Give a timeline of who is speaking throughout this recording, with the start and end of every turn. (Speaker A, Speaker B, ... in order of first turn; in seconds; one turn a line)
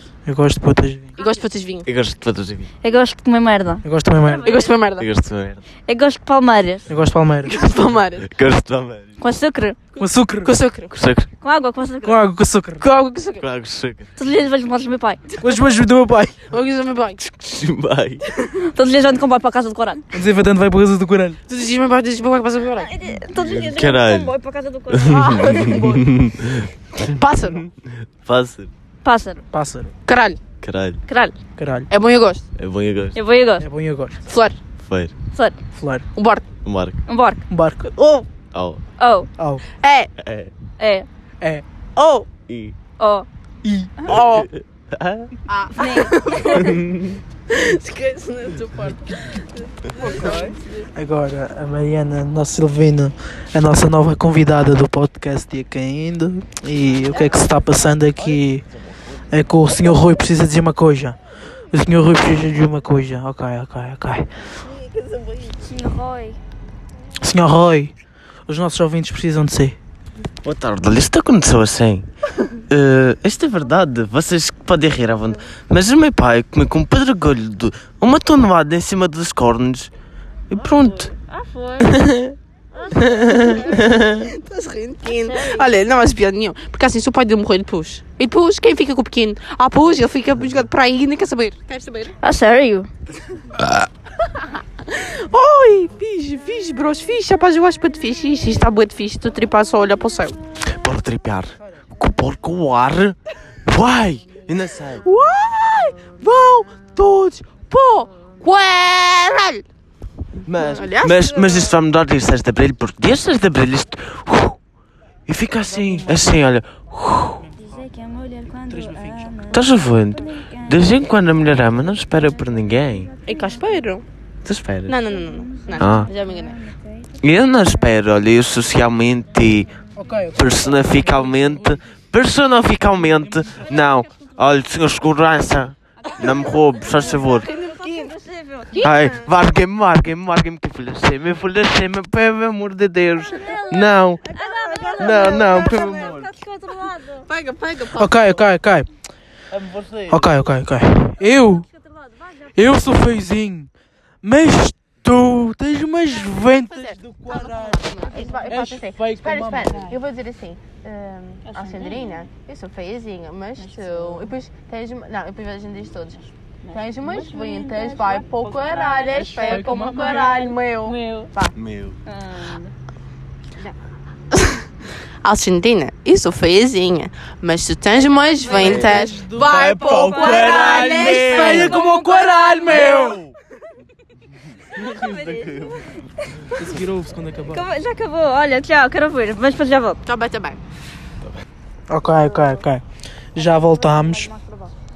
Speaker A: 0.2-1.1
Speaker B: 1.2-1.9
Speaker C: 1.8-2.7
Speaker D: 2.8-4.8
Speaker A: 3.8-4.5
Speaker B: 4.4-5.1
Speaker C: 5.0-5.6
Speaker D: 5.8-6.9
Speaker A: 6.9-7.6
Speaker B: 7.4-8.3
Speaker C: 8.2-9.2
Speaker D: 9.2-9.8
Speaker B: 9.9-10.9
Speaker A: 10.0-10.5
Speaker C: 10.9-11.3
Speaker D: 11.4-12.3
Speaker A: 12.0-12.8
Speaker B: 12.8-13.4
Speaker C: 13.4-14.1
Speaker D: 14.2-15.2
Speaker A: 15.4-16.4
Speaker B: 16.5-17.2
Speaker C: 17.2-18.2
Speaker D: 18.5-20.1
Speaker A: 20.1-21.4
Speaker B: 21.5-22.9
Speaker D: 22.8-25.8
Speaker C: 23.4-24.3
Speaker C: 24.9-26.6
Speaker B: 25.1-26.3
Speaker B: 27.1-27.6
Speaker C: 28.2-28.7
Speaker D: 29.0-29.4
Speaker A: 29.5-29.9
Speaker B: 30.1-30.4
Speaker C: 30.6-31.0
Speaker D: 31.1-31.3
Speaker A: 31.6-31.9
Speaker B: 31.9-32.5
Speaker C: 32.5-33.2
Speaker D: 33.1-33.6
Speaker A: 33.6-34.2
Speaker B: 34.3-34.6
Speaker C: 34.8-35.1
Speaker D: 35.3-35.6
Speaker A: 35.8-36.1
Speaker B: 36.1-36.5
Speaker C: 36.6-37.0
Speaker D: 37.0-37.4
Speaker A: 37.5-38.3
Speaker C: 38.5-38.8
Speaker D: 39.0-39.3
Speaker A: 39.4-39.6
Speaker B: 39.8-40.1
Speaker C: 40.2-40.5
Speaker D: 40.8-41.1
Speaker B: 42.0-42.3
Speaker C: 42.5-42.8
Speaker D: 43.0-43.2
Speaker A: 43.6-43.9
Speaker B: 44.0-44.5
Speaker C: 44.1-44.4
Speaker C: 44.9-45.3
Speaker B: 45.5-50.9
Speaker D: 45.7-46.8
Speaker A: 51.0-58.7
Speaker A: 59.3-61.2
Speaker A: 61.7-64.3
Speaker B: 64.6-65.5
Speaker D: 65.5-66.4
Speaker A: 67.2-67.9
Speaker A: 68.5-69.8
Speaker C: 70.4-72.1
Speaker C: 72.7-79.9
Speaker C: 80.5-81.1
Speaker D: 80.6-81.9
Speaker C: 81.8-82.3
Speaker D: 82.7-84.0
Speaker B: 82.9-92.2
Speaker C: 83.2-84.0
Speaker D: 85.1-85.7
Speaker D: 92.2-92.9
Speaker C: 93.6-93.9
Speaker B: 94.4-100.4
Speaker C: 100.7-105.0
Speaker B: 105.0-109.6
Speaker C: 110.4-114.6
Speaker B: 110.5-111.8
Speaker C: 115.3-117.4
Speaker A: 115.8-116.2
Speaker A: 117.4-117.7
Speaker D: 117.6-121.0
Speaker A: 118.7-119.6
Speaker C: 119.5-123.1
Speaker D: 122.1-122.4
Speaker D: 122.9-123.8
Speaker B: 123.2-124.0
Speaker C: 124.4-124.9
Speaker B: 124.8-126.6
Speaker D: 125.1-127.1
Speaker C: 125.8-126.1
Speaker C: 127.2-129.8
Speaker A: 130.0-131.4
Speaker C: 130.3-137.5
Speaker B: 136.2-136.5
Speaker D: 136.9-138.9
Speaker B: 137.1-138.1
Speaker B: 138.7-139.3
Speaker C: 138.8-144.2
Speaker D: 143.2-147.3
Speaker B: 144.3-145.4
Speaker C: 145.0-146.3
Speaker B: 147.2-148.4
Speaker A: 147.9-148.9
Speaker C: 149.5-150.3
Speaker A: 150.1-151.7
Speaker D: 151.2-152.5
Speaker A: 152.5-153.7
Speaker A: 154.2-157.8
Speaker B: 156.4-171.5
Speaker D: 158.0-158.6
Speaker A: 158.5-159.9
Speaker D: 161.4-162.3
Speaker D: 163.6-164.3
Speaker D: 166.6-171.3
Speaker A: 169.1-170.2
Speaker C: 171.5-171.9
Speaker D: 172.1-172.7
Speaker B: 174.3-174.6
Speaker B: 175.2-181.8
Speaker D: 178.2-178.8
Speaker A: 178.4-183.2
Speaker C: 178.6-181.7
Speaker D: 179.6-183.1
Speaker C: 182.9-183.3
Speaker D: 184.7-186.6
Speaker C: 184.9-185.6
Speaker A: 186.5-187.7
Speaker D: 187.5-190.0
Speaker B: 190.0-190.6
Speaker A: 191.9-192.8
Speaker D: 192.0-192.7
Speaker A: 193.3-194.3
Speaker D: 193.3-194.7